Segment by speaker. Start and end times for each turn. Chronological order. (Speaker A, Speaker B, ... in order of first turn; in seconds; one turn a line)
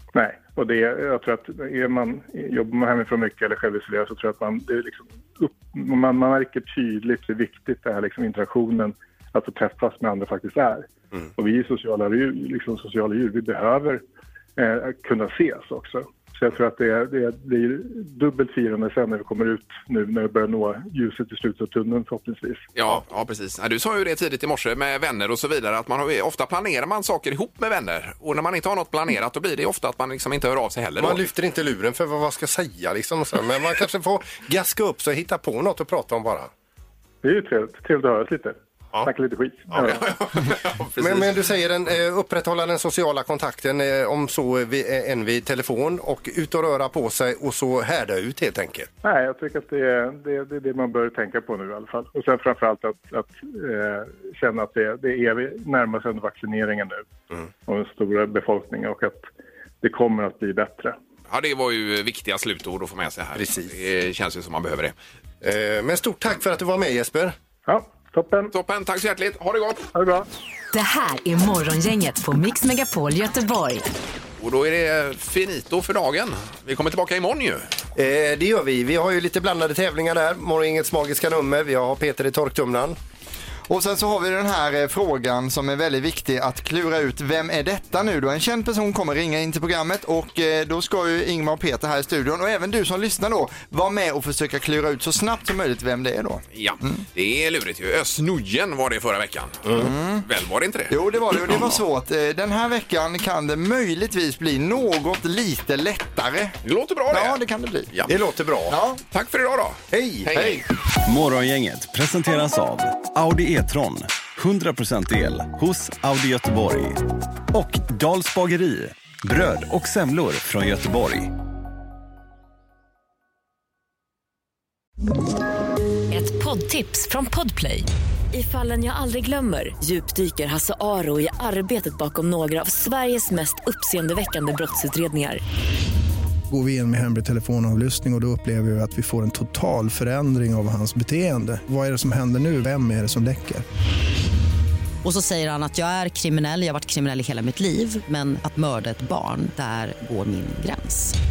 Speaker A: 0.1-14.0
Speaker A: 14.6-22.6
Speaker B: 22.8-31.2
Speaker C: 31.0-36.5
Speaker A: 37.2-40.0
Speaker B: 39.8-41.4
Speaker C: 41.0-48.9
Speaker A: 49.0-57.0
Speaker A: 57.6-59.3
Speaker A: 59.8-61.0
Speaker B: 61.3-64.9
Speaker C: 63.4-63.7
Speaker C: 65.4-67.3
Speaker A: 67.7-68.5
Speaker B: 68.5-69.8
Speaker A: 69.9-70.2
Speaker D: 70.7-73.9
Speaker B: 74.4-77.7
Speaker C: 77.9-83.0
Speaker E: 83.7-97.0
Speaker B: 96.5-99.6
Speaker E: 99.8-100.2
Speaker B: 100.2-101.8
Speaker E: 100.9-106.6
Speaker B: 106.6-107.4
Speaker E: 107.1-107.9
Speaker C: 108.1-108.7
Speaker E: 108.7-109.0
Speaker B: 109.1-110.6
Speaker C: 109.9-110.3
Speaker E: 110.3-110.6
Speaker F: 111.0-121.3
Speaker G: 126.1-135.4
Speaker H: 136.5-143.7
Speaker I: 145.0-151.1